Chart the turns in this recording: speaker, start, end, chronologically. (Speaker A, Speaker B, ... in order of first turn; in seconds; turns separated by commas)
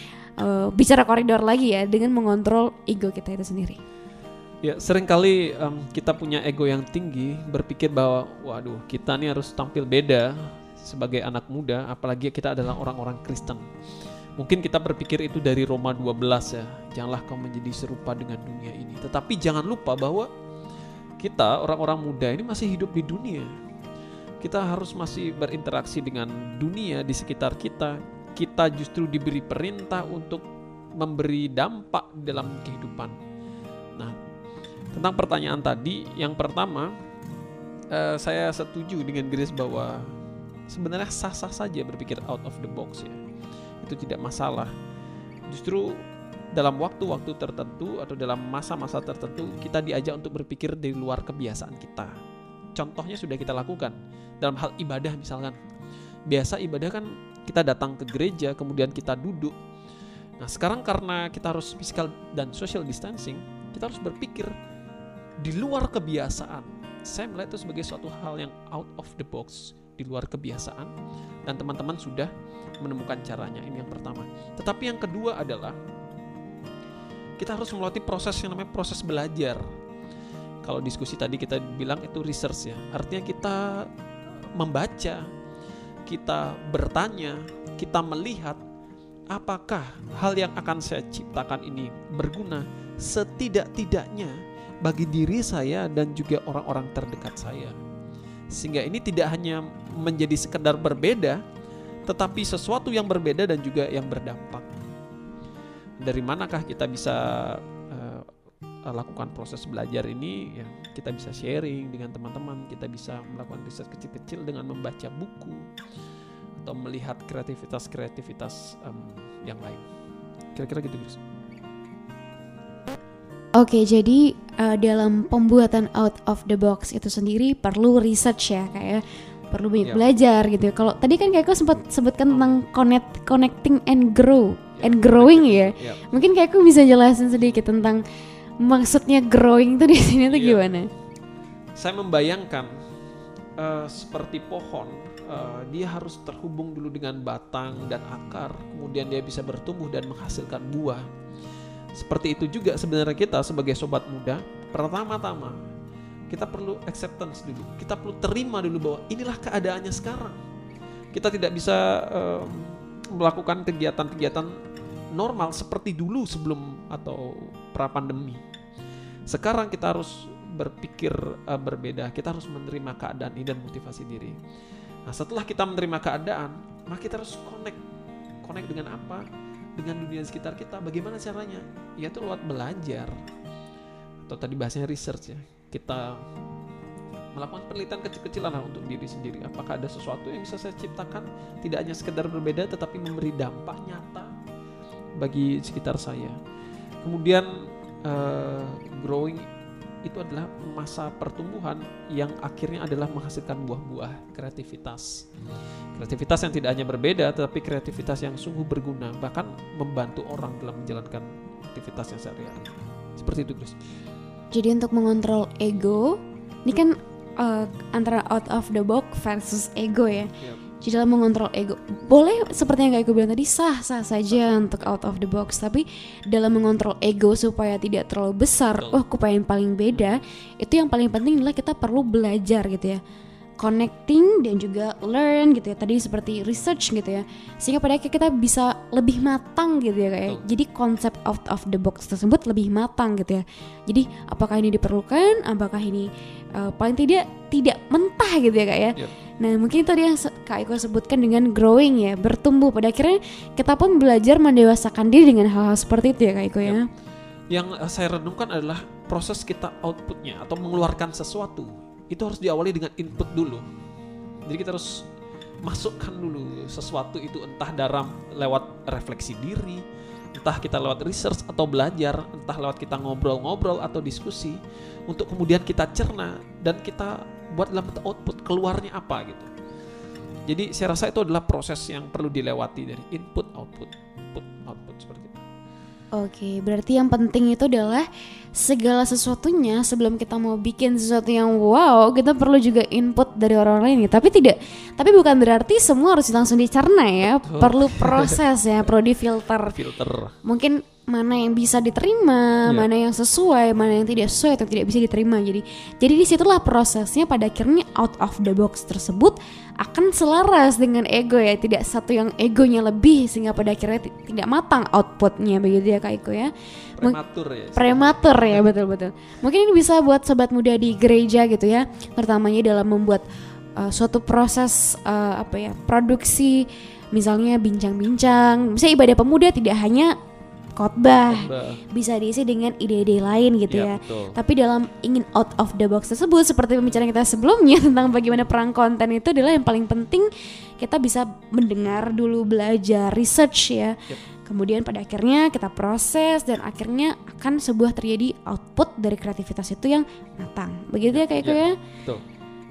Speaker A: 0.4-3.8, Speaker B: 4.6-13.7, Speaker B: 14.4-20.3, Speaker B: 21.2-23.5, Speaker B: 24.4-30.4, Speaker B: 31.0-33.2, Speaker B: 34.9-37.0, Speaker B: 37.9-40.2, Speaker B: 40.7-43.2, Speaker B: 43.8-44.7, Speaker B: 45.5-52.2, Speaker B: 52.7-55.6, Speaker B: 56.3-59.5, Speaker B: 60.4-64.5, Speaker B: 65.4-70.9, Speaker B: 71.5-75.8, Speaker B: 77.4-79.6, Speaker B: 80.6-83.9, Speaker B: 84.5-85.3, Speaker B: 86.1-88.6, Speaker B: 89.3-97.8, Speaker B: 98.5-101.4, Speaker B: 102.1-104.7, Speaker B: 106.0-108.3, Speaker B: 108.9-115.7, Speaker B: 116.6-119.8, Speaker B: 120.5-121.2, Speaker A: 123.5-138.0, Speaker B: 132.3-132.6, Speaker B: 134.8-136.0, Speaker A: 138.6-140.9, Speaker B: 140.3-140.7, Speaker B: 141.8-142.8, Speaker B: 143.6-151.1, Speaker B: 151.9-155.6, Speaker B: 156.3-160.4, Speaker B: 161.1-164.6, Speaker B: 165.1-168.4, Speaker B: 169.3-174.4, Speaker B: 175.1-177.8, Speaker B: 178.4-179.2, Speaker B: 179.8-183.1, Speaker B: 184.2-186.2, Speaker B: 187.3-194.3, Speaker B: 195.2-196.4, Speaker B: 197.0-199.5, Speaker B: 200.0-205.3, Speaker B: 205.9-213.7, Speaker A: 214.5-233.0, Speaker B: 224.3-224.9, Speaker A: 233.6-256.9, Speaker B: 257.5-263.6, Speaker B: 264.4-265.1, Speaker B: 265.6-269.8, Speaker B: 270.3-279.5, Speaker B: 280.5-285.4, Speaker A: 286.1-288.1, Speaker A: 288.6-299.8, Speaker B: 297.2-298.4, Speaker B: 299.7-300.4, Speaker A: 300.4-317.2, Speaker B: 317.0-318.7, Speaker A: 317.8-323.2, Speaker A: 323.8-330.2, Speaker A: 330.8-340.3, Speaker B: 331.3-331.8, Speaker B: 333.7-334.4, Speaker A: 340.8-351.8, Speaker B: 351.1-352.2